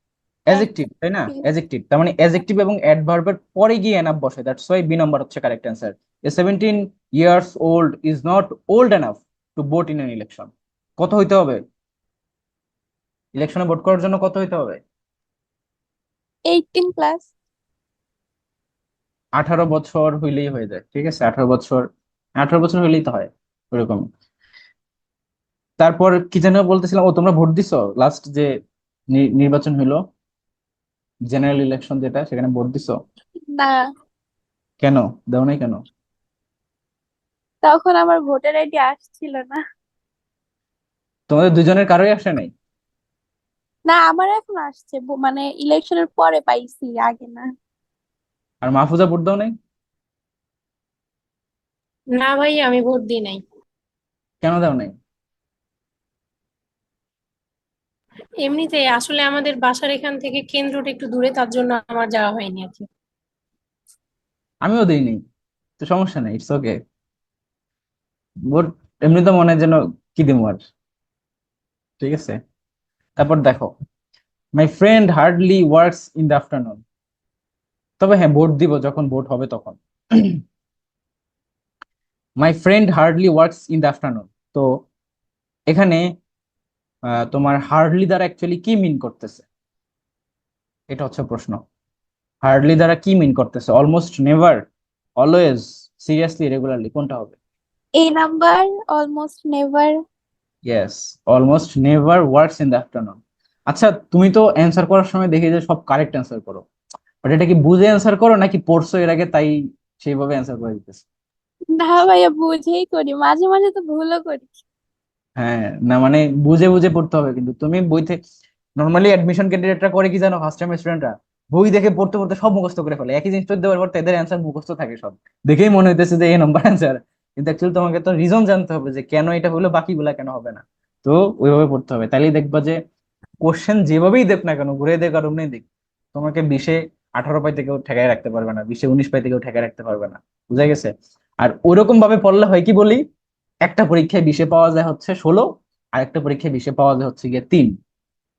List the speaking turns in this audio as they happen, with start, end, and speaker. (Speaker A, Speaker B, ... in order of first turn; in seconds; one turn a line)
Speaker A: 0.5-11.6
Speaker A: 13.3-14.8
Speaker B: 16.5-17.3
Speaker A: 19.4-21.9
Speaker A: 22.4-24.0
Speaker A: 25.8-28.5
Speaker A: 29.1-30.0
Speaker A: 31.3-33.0
Speaker A: 34.8-35.8
Speaker B: 37.6-39.6
Speaker A: 41.3-42.5
Speaker B: 43.9-47.5
Speaker A: 48.6-49.5
Speaker C: 52.1-53.4
Speaker A: 54.4-54.9
Speaker C: 58.4-62.8
Speaker A: 64.6-65.2
Speaker A: 65.8-66.8
Speaker A: 68.5-70.6
Speaker A: 72.0-72.4
Speaker A: 73.2-73.7
Speaker A: 74.6-76.8
Speaker A: 78.0-80.4
Speaker A: 82.4-84.7
Speaker A: 85.7-86.0
Speaker A: 87.2-89.5
Speaker A: 90.9-91.6
Speaker A: 92.4-94.6
Speaker A: 95.2-97.3
Speaker B: 98.0-99.9
Speaker A: 100.7-103.2
Speaker A: 103.7-106.6
Speaker A: 107.2-111.0
Speaker B: 111.7-114.6
Speaker A: 115.4-118.2
Speaker A: 118.8-132.8
Speaker A: 133.4-140.9
Speaker A: 141.4-143.0
Speaker A: 143.7-147.7